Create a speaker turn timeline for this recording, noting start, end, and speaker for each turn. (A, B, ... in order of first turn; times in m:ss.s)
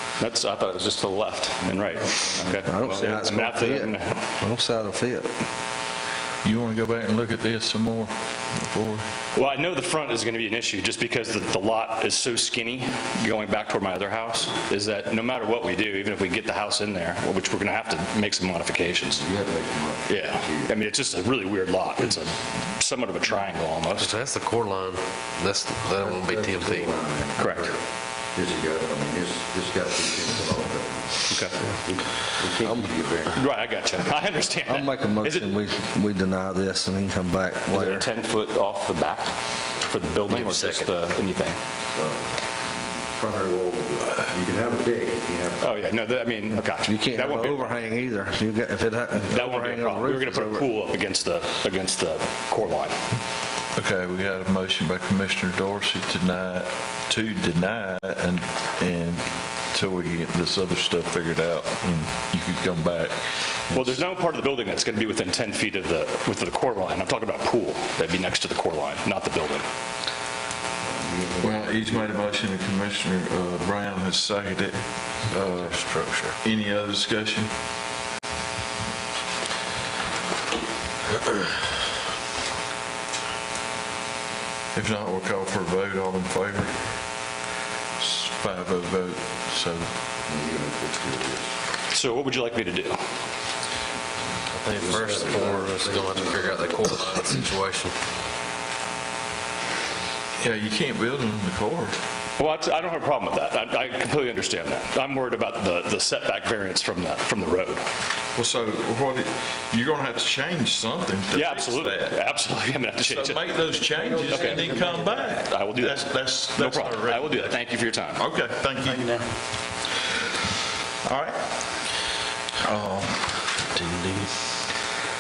0:00.2-0:04.2 A
0:02.6-0:05.3 B
0:06.4-0:09.0 C
0:09.3-0:19.2 A
0:19.2-0:20.7 D
0:20.1-0:24.2 A
0:24.0-0:26.8 E
0:25.8-0:27.8 D
0:27.4-0:27.8 A
0:28.3-0:31.3 D
0:31.3-0:31.6 A
0:31.8-0:33.4 D
0:33.3-0:35.5 A
0:34.6-0:38.1 B
0:37.7-0:41.6 A
0:40.3-0:40.9 E
0:43.1-0:45.7 D
0:45.6-0:47.7 A
0:46.8-0:50.7 B
0:49.3-0:53.0 A
0:53.8-1:03.2 C
1:03.7-1:04.0 C
1:03.7-1:09.7 A
1:11.0-1:12.3 D
1:11.4-1:17.5 C
1:15.7-1:16.3 E
1:24.7-1:26.8 C
1:28.0-1:29.9 C
1:30.2-1:31.5 D
1:31.9-1:33.0 A
1:34.5-1:37.9 E
1:34.7-1:37.0 D
1:40.4-1:42.0 C
1:42.4-1:47.8 A
1:48.4-1:52.2 C
1:51.3-1:53.5 A
1:53.0-1:57.6 C
1:54.2-1:54.9 A
1:55.4-1:58.2 A
1:58.2-1:59.2 C
2:01.0-2:01.5 C
2:02.6-2:03.3 C
2:03.8-2:04.3 E